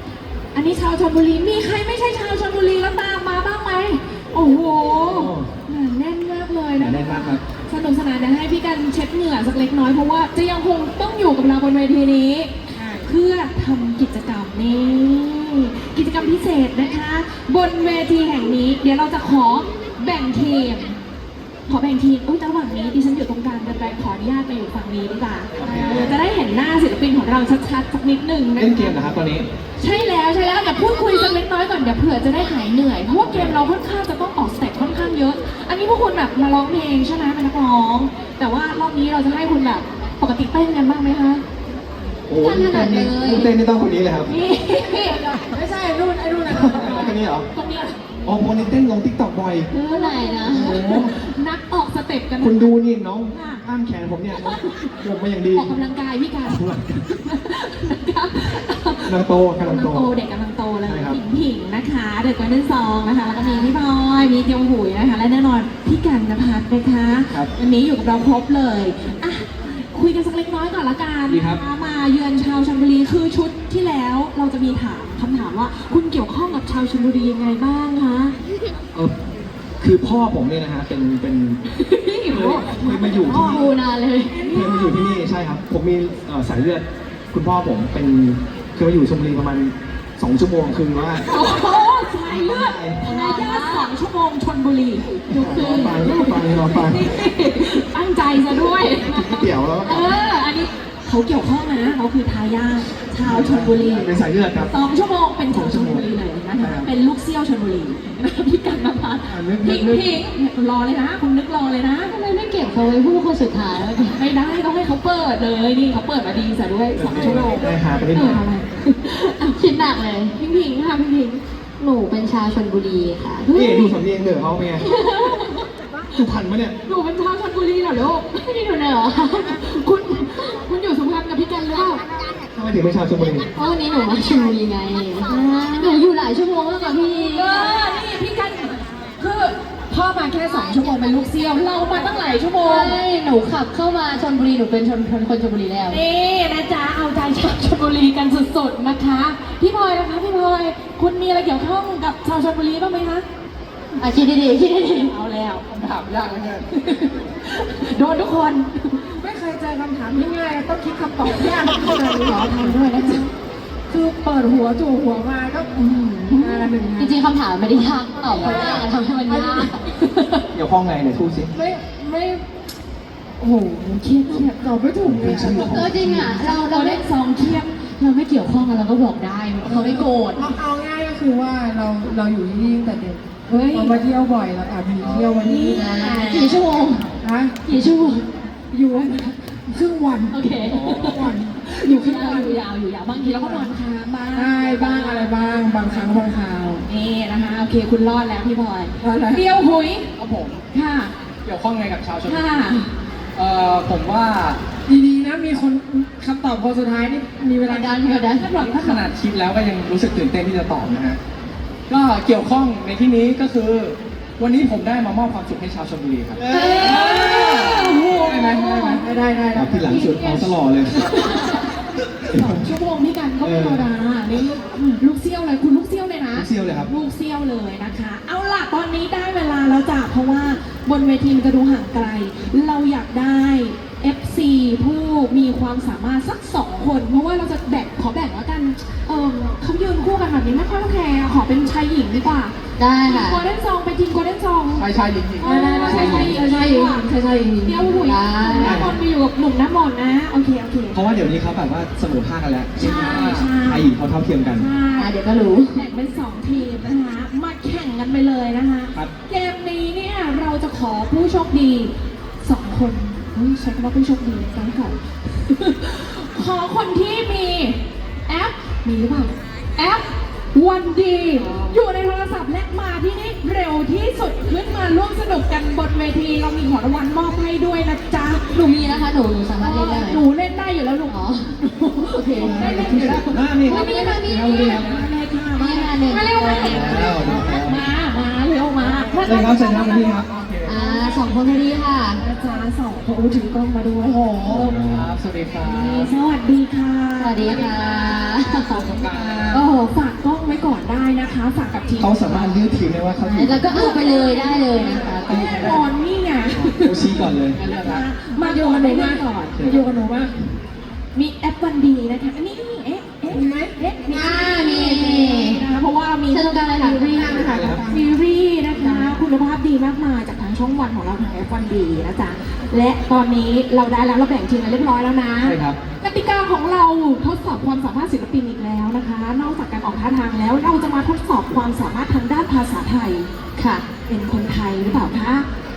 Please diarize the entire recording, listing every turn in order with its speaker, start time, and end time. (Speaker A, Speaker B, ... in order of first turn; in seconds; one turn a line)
Speaker A: 0.5-20.9
Speaker B: 4.9-5.5
Speaker B: 6.8-7.4
Speaker C: 12.7-13.1
Speaker A: 21.7-28.9
Speaker B: 25.6-26.2
Speaker D: 25.6-26.1
Speaker B: 28.6-29.5
Speaker A: 29.8-41.4
Speaker B: 33.2-33.6
Speaker B: 42.3-44.4
Speaker D: 42.4-43.5
Speaker A: 44.3-45.2
Speaker C: 44.9-47.1
Speaker B: 46.5-47.5
Speaker A: 46.8-48.0
Speaker B: 48.2-49.7
Speaker D: 49.7-50.8
Speaker A: 49.8-52.8
Speaker B: 50.5-51.1
Speaker B: 52.4-55.7
Speaker A: 53.3-53.6
Speaker A: 54.3-54.9
Speaker A: 55.5-78.3
Speaker B: 56.4-57.2
Speaker B: 59.0-60.1
Speaker B: 60.9-61.2
Speaker D: 63.2-63.7
Speaker B: 71.3-71.6
Speaker B: 79.8-81.6
Speaker A: 81.7-83.7
Speaker B: 82.3-83.7
Speaker D: 83.2-84.5
Speaker A: 84.2-85.2
Speaker B: 84.5-91.6
Speaker A: 91.2-112.1
Speaker B: 92.2-93.1
Speaker D: 93.0-93.9
Speaker D: 95.2-96.0
Speaker B: 95.3-97.1
Speaker B: 99.0-100.2
Speaker B: 103.2-104.7
Speaker B: 105.5-106.1
Speaker B: 106.6-106.9
Speaker B: 109.3-110.1
Speaker D: 112.1-114.2
Speaker A: 114.1-119.7
Speaker B: 117.0-118.4
Speaker E: 117.1-117.5
Speaker D: 119.5-120.3
Speaker A: 120.4-121.4
Speaker D: 121.8-123.5
Speaker A: 123.4-124.0
Speaker B: 123.5-124.8
Speaker A: 124.8-125.7
Speaker D: 124.9-125.4
Speaker B: 126.1-126.7
Speaker A: 126.8-128.6
Speaker D: 128.4-129.6
Speaker A: 129.4-132.0
Speaker B: 132.5-133.5
Speaker D: 133.5-137.9
Speaker A: 135.3-136.0
Speaker A: 137.3-143.0
Speaker D: 142.6-146.0
Speaker A: 145.9-153.2
Speaker D: 154.0-155.1
Speaker A: 154.8-155.6
Speaker E: 155.7-156.7
Speaker A: 156.7-159.0
Speaker C: 159.2-163.2
Speaker A: 162.0-163.3
Speaker C: 163.9-167.2
Speaker A: 165.9-166.7
Speaker D: 166.9-169.8
Speaker C: 168.1-169.7
Speaker A: 168.3-168.8
Speaker A: 169.9-170.4
Speaker B: 170.5-171.5
Speaker C: 171.5-172.4
Speaker C: 173.4-175.6
Speaker B: 175.0-176.5
Speaker D: 175.3-180.5
Speaker A: 176.4-177.7
Speaker B: 179.6-180.0
Speaker C: 179.8-186.4
Speaker A: 183.5-184.0
Speaker E: 185.0-185.5
Speaker A: 185.4-187.0
Speaker D: 185.5-187.1
Speaker C: 187.2-187.5
Speaker D: 187.7-188.2
Speaker C: 188.7-192.6
Speaker A: 190.3-195.3
Speaker E: 190.7-191.4
Speaker D: 192.0-192.5
Speaker C: 193.2-193.7
Speaker C: 194.3-196.8
Speaker A: 196.9-200.1
Speaker C: 199.0-199.5
Speaker E: 200.2-200.7
Speaker A: 200.7-201.1
Speaker E: 201.4-202.5
Speaker A: 202.3-202.9
Speaker E: 203.3-204.7
Speaker C: 204.8-208.3
Speaker D: 207.6-208.5
Speaker A: 208.3-209.1
Speaker E: 208.5-211.2
Speaker E: 211.9-219.0
Speaker B: 216.3-217.2
Speaker A: 216.5-219.1
Speaker D: 216.5-217.1
Speaker C: 218.1-220.4
Speaker B: 219.5-221.1
Speaker A: 219.9-247.1
Speaker B: 222.2-222.7
Speaker B: 223.4-223.9
Speaker B: 226.3-226.9
Speaker D: 242.8-243.4
Speaker E: 244.7-246.4
Speaker D: 245.4-248.9
Speaker B: 245.9-246.3
Speaker A: 247.6-251.0
Speaker B: 248.6-248.9
Speaker B: 250.9-254.7
Speaker A: 252.8-253.9
Speaker E: 252.8-253.5
Speaker A: 254.5-255.1
Speaker D: 254.9-255.8
Speaker A: 255.7-278.4
Speaker D: 271.4-271.7
Speaker D: 278.5-280.2
Speaker A: 279.6-290.2
Speaker D: 281.1-281.5
Speaker D: 282.1-284.9
Speaker B: 282.4-284.8
Speaker E: 284.4-284.9
Speaker D: 285.5-287.3
Speaker B: 286.6-287.9
Speaker B: 289.2-290.3
Speaker E: 290.1-290.8
Speaker D: 290.6-292.2
Speaker A: 290.7-291.1
Speaker A: 292.2-294.7
Speaker C: 294.1-294.7
Speaker B: 294.4-295.1
Speaker E: 294.5-296.1
Speaker A: 295.6-297.8
Speaker D: 297.2-298.9
Speaker E: 298.6-299.6
Speaker C: 299.1-299.6
Speaker A: 299.5-302.6
Speaker B: 302.0-303.6
Speaker D: 303.2-305.8
Speaker A: 303.6-309.6
Speaker C: 304.4-305.6
Speaker E: 305.2-305.7
Speaker B: 305.3-305.8
Speaker B: 306.5-307.6
Speaker E: 307.5-308.0
Speaker C: 308.3-310.5
Speaker B: 309.6-309.9
Speaker A: 311.1-333.3
Speaker C: 313.3-314.9
Speaker D: 314.1-315.6
Speaker D: 316.3-317.7
Speaker C: 317.1-318.1
Speaker B: 317.3-317.9
Speaker C: 318.7-319.2
Speaker B: 325.4-325.8
Speaker D: 333.6-333.9
Speaker A: 334.0-335.4